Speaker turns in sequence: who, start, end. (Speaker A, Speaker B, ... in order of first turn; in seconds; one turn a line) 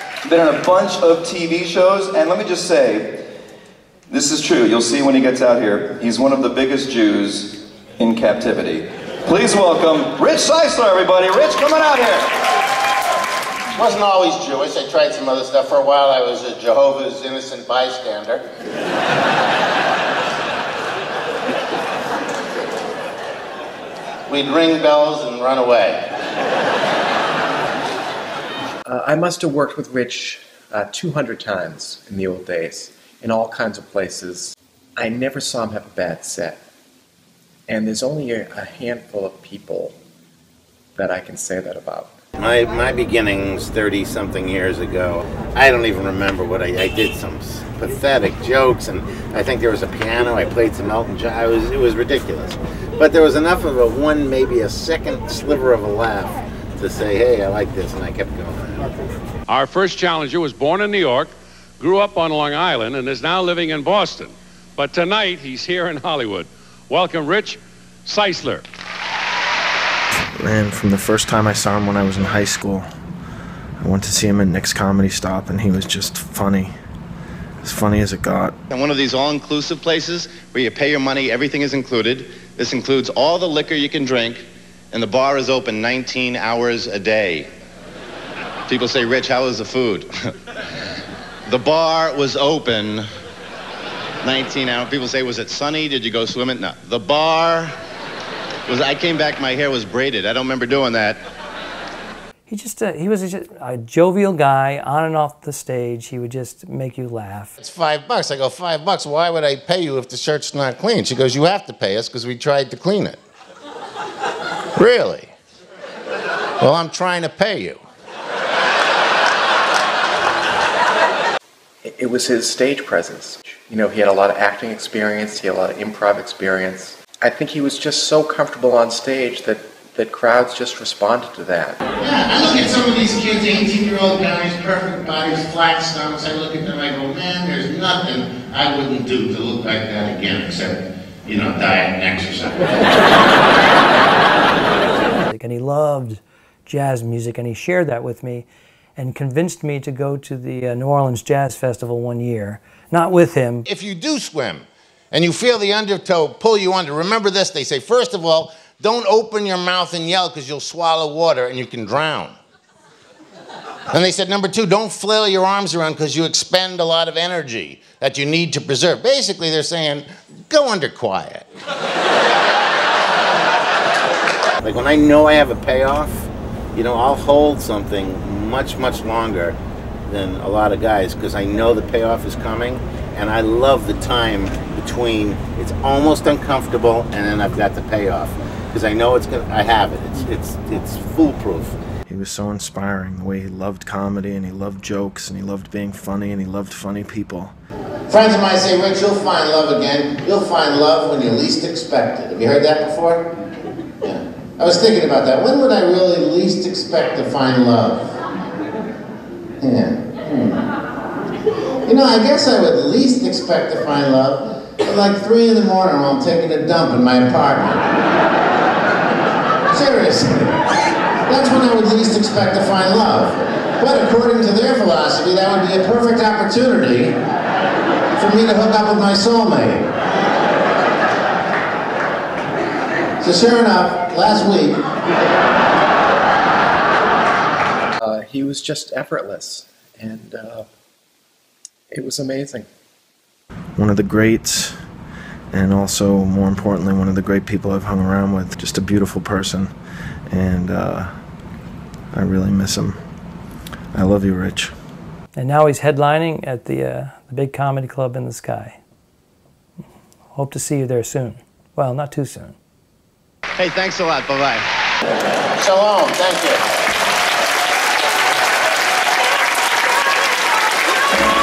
Speaker A: 0.2-3.2
Speaker A: 4.1-12.3
Speaker B: 13.7-18.4
Speaker B: 24.3-26.1
Speaker C: 28.9-36.6
Speaker C: 37.7-39.9
Speaker C: 41.0-42.1
Speaker B: 42.4-58.9
Speaker D: 59.5-68.6
Speaker E: 70.4-72.8
Speaker E: 73.8-76.7
Speaker E: 77.6-78.5
Speaker F: 78.7-87.5
Speaker B: 79.2-80.5
Speaker B: 81.0-81.7
Speaker B: 84.9-87.3
Speaker F: 88.7-90.0
Speaker B: 89.3-89.5
Speaker B: 91.5-92.6
Speaker F: 91.6-93.0
Speaker B: 94.3-97.6
Speaker F: 94.3-97.3
Speaker F: 98.7-101.2
Speaker B: 99.4-100.7
Speaker G: 102.5-107.5
Speaker B: 107.6-113.2
Speaker B: 114.8-115.3
Speaker B: 116.6-117.8
Speaker C: 121.8-131.8
Speaker B: 132.0-142.9
Speaker G: 145.2-153.7
Speaker B: 153.7-162.3
Speaker B: 163.9-171.5
Speaker B: 174.6-179.6
Speaker B: 180.1-191.8
Speaker E: 192.1-197.5
Speaker B: 198.1-203.3
Speaker B: 204.0-208.1
Speaker B: 209.6-210.6
Speaker B: 211.8-217.8
Speaker B: 219.7-220.6
Speaker B: 221.3-227.2
Speaker B: 228.2-229.9
Speaker B: 233.2-234.8
Speaker C: 238.0-240.7
Speaker C: 241.9-242.7
Speaker E: 243.8-244.7
Speaker E: 245.5-249.7
Speaker E: 250.3-251.1
Speaker E: 252.1-253.0
Speaker E: 253.9-254.7
Speaker G: 255.3-258.8
Speaker G: 260.3-262.6
Speaker B: 263.6-264.5
Speaker F: 264.4-264.6
Speaker B: 265.6-266.6